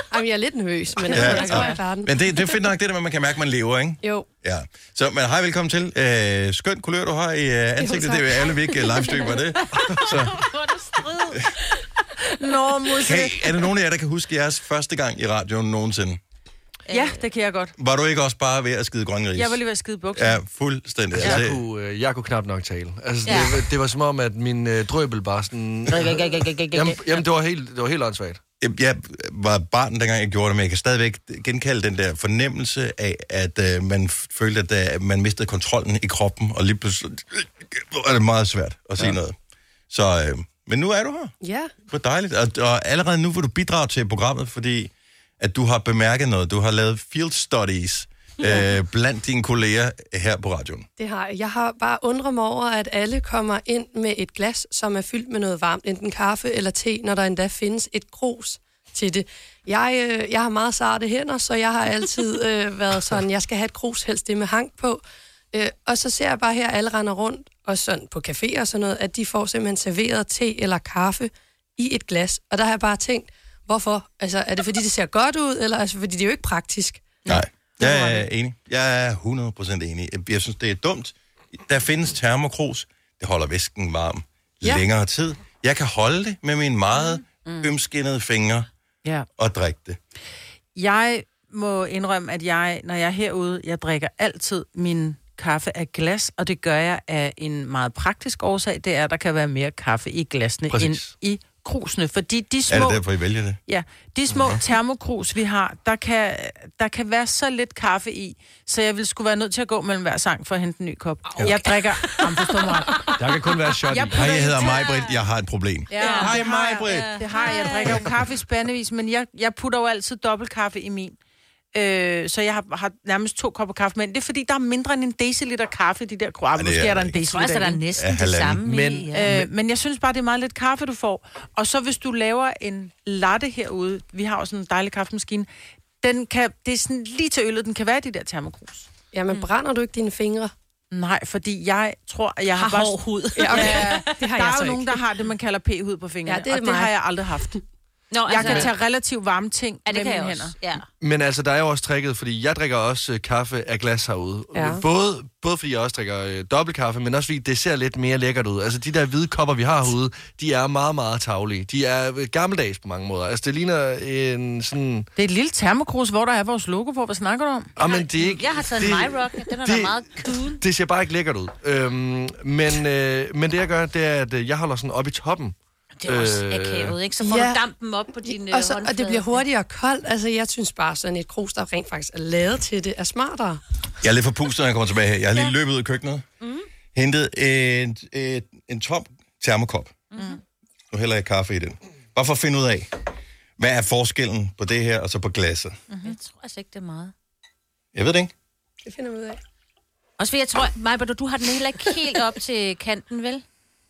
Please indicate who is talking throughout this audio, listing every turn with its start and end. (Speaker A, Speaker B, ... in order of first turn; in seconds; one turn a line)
Speaker A: 0.1-2.1
Speaker B: 1.1-1.8
Speaker C: 1.1-10.3
Speaker A: 7.8-9.1
Speaker D: 10.1-11.4
Speaker B: 12.4-13.5
Speaker C: 13.0-16.2
Speaker D: 16.9-17.2
Speaker B: 16.9-17.7
Speaker C: 17.8-19.6
Speaker B: 19.4-20.4
Speaker C: 20.1-21.6
Speaker E: 21.1-28.4
Speaker D: 23.2-23.6
Speaker D: 25.9-27.2
Speaker C: 28.6-39.4
Speaker C: 39.9-41.3
Speaker A: 41.4-41.7
Speaker C: 41.9-50.9
Speaker A: 51.0-65.0
Speaker A: 65.5-77.2
Speaker B: 77.2-78.2
Speaker C: 77.3-88.7
Speaker C: 89.4-90.0
Speaker B: 90.8-103.0
Speaker E: 100.7-101.1
Speaker C: 102.7-103.6
Speaker B: 103.7-113.1
Speaker E: 113.2-114.2
Speaker B: 113.9-114.8
Speaker C: 114.1-117.1
Speaker D: 114.5-115.2
Speaker D: 115.9-118.1
Speaker B: 115.9-121.2
Speaker B: 121.7-127.8
Speaker C: 126.5-127.2
Speaker D: 127.2-129.4
Speaker C: 127.9-128.6
Speaker E: 128.6-129.4
Speaker B: 129.1-135.5
Speaker B: 136.0-138.9
Speaker A: 139.1-140.5
Speaker B: 140.9-147.6
Speaker D: 142.6-144.1
Speaker A: 143.3-145.0
Speaker A: 146.2-146.9
Speaker D: 148.1-148.7
Speaker B: 148.3-150.5
Speaker D: 149.8-150.8
Speaker E: 151.0-165.1
Speaker A: 154.5-154.8
Speaker B: 165.2-167.7
Speaker E: 167.8-177.0
Speaker D: 167.8-170.6
Speaker D: 176.0-179.4
Speaker A: 177.2-177.6
Speaker A: 178.3-183.6
Speaker C: 184.0-186.2
Speaker D: 186.4-186.7
Speaker C: 186.9-190.0
Speaker D: 190.1-190.4
Speaker C: 190.9-192.9
Speaker C: 193.6-195.8
Speaker D: 196.0-197.1
Speaker C: 197.9-198.3
Speaker A: 198.8-199.4
Speaker D: 200.2-203.4